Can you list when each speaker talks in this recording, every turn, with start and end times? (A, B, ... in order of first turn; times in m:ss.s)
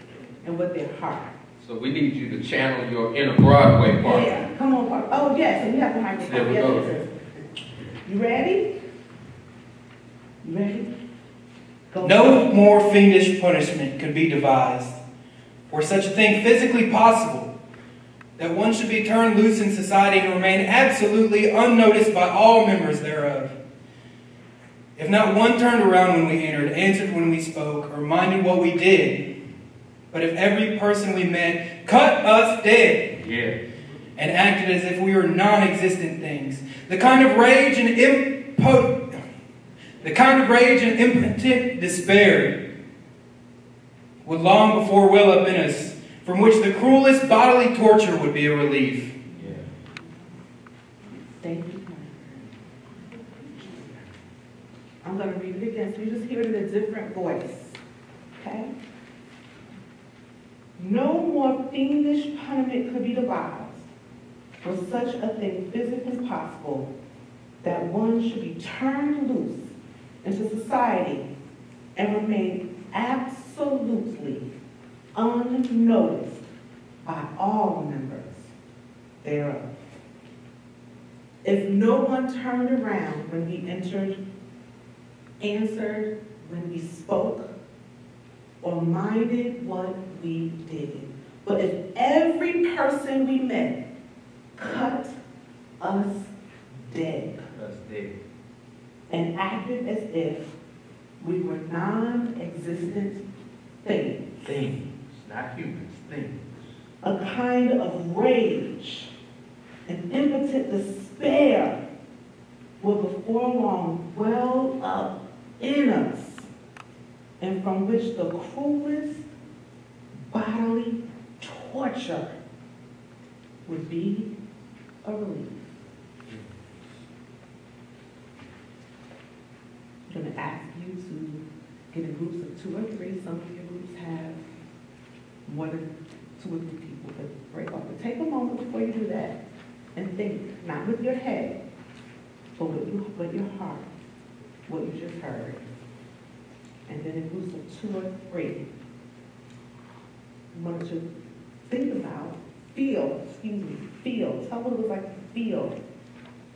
0:00.4-0:01.3 A
0:01.6-0:04.4 B
0:04.0-0:07.1 A
0:06.3-0:07.0 B
0:08.0-0:08.7 A
0:10.4-0:10.9 A
0:11.9-0:12.4 A
0:12.0-0:15.0 C
0:15.7-0:17.5 C
0:18.4-0:23.5 C
0:25.0-0:29.2 C
0:30.1-0:33.1 C
0:33.2-0:33.6 B
0:34.2-0:39.2 C
0:40.0-0:42.6 C
0:44.2-0:49.1 C
0:49.4-0:49.6 B
0:51.1-0:52.4 A
0:55.0-0:57.8 A
0:58.4-0:58.7 A
1:00.8-1:03.9 A
1:04.6-1:06.9 A
1:07.6-1:11.2 A
1:11.9-1:14.5 A
1:15.1-1:16.4 A
1:17.0-1:18.5 A
1:19.2-1:19.8 A
1:21.4-1:24.2 A
1:25.4-1:27.5 A
1:28.6-1:33.8 A
1:34.6-1:35.2 A
1:35.8-1:36.3 A
1:36.8-1:37.4 A
1:37.5-1:38.2 B
1:39.1-1:40.5 A
1:41.2-1:43.2 A
1:43.8-1:44.5 A
1:44.4-1:46.7 B
1:47.0-1:49.1 A
1:49.8-1:51.8 A
1:52.8-1:56.5 A
1:57.4-1:59.2 A
2:00.3-2:02.3 A
2:03.6-2:04.3 A
2:05.0-2:05.6 A
2:06.2-2:06.5 B
2:10.1-2:14.4 A
2:15.4-2:19.4 A
2:19.9-2:21.6 A
2:22.6-2:23.9 A
2:24.7-2:25.6 A
2:26.8-2:28.6 A
2:30.5-2:31.0 A
2:31.7-2:35.8 A